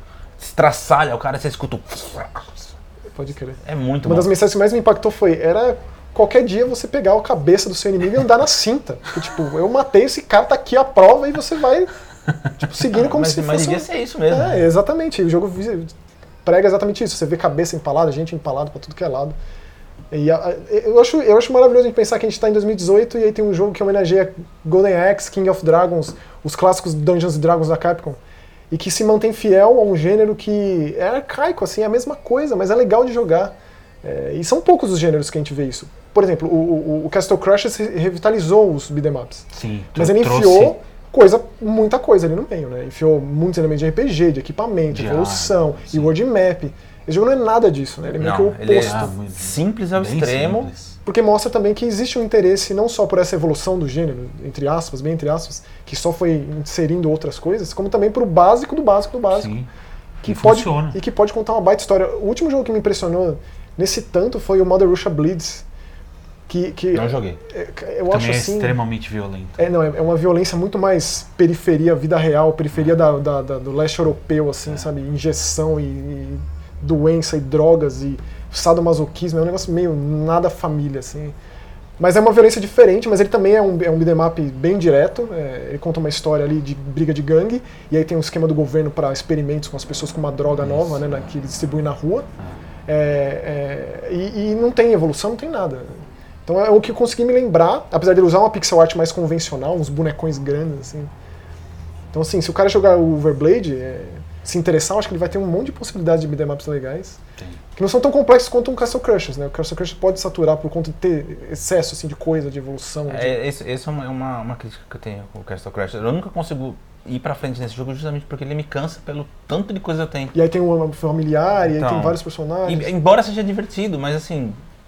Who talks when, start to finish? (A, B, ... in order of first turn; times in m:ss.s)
0:00.4-0:02.7 A
0:03.2-0:11.9 B
0:03.6-0:04.3 A
0:12.6-0:15.9 B
0:12.9-0:14.5 A
0:16.4-0:19.4 B
0:20.1-0:28.2 B
0:28.7-0:49.2 B
0:39.5-0:40.8 C
0:44.9-0:46.1 C
0:48.2-0:50.7 A
0:48.8-0:51.0 C
0:51.0-0:59.5 B
0:59.3-0:59.7 C
1:00.2-1:05.6 B
1:00.2-1:01.0 C
1:06.5-1:08.8 B
1:06.9-1:07.4 A
1:08.1-1:09.7 C
1:09.6-1:21.3 B
1:22.0-1:32.3 B
1:30.6-1:31.3 C
1:32.9-1:41.1 B
1:42.1-1:47.2 B
1:47.8-1:53.4 B
1:53.1-2:00.3 A
2:00.3-2:02.9 B
2:01.6-2:04.6 A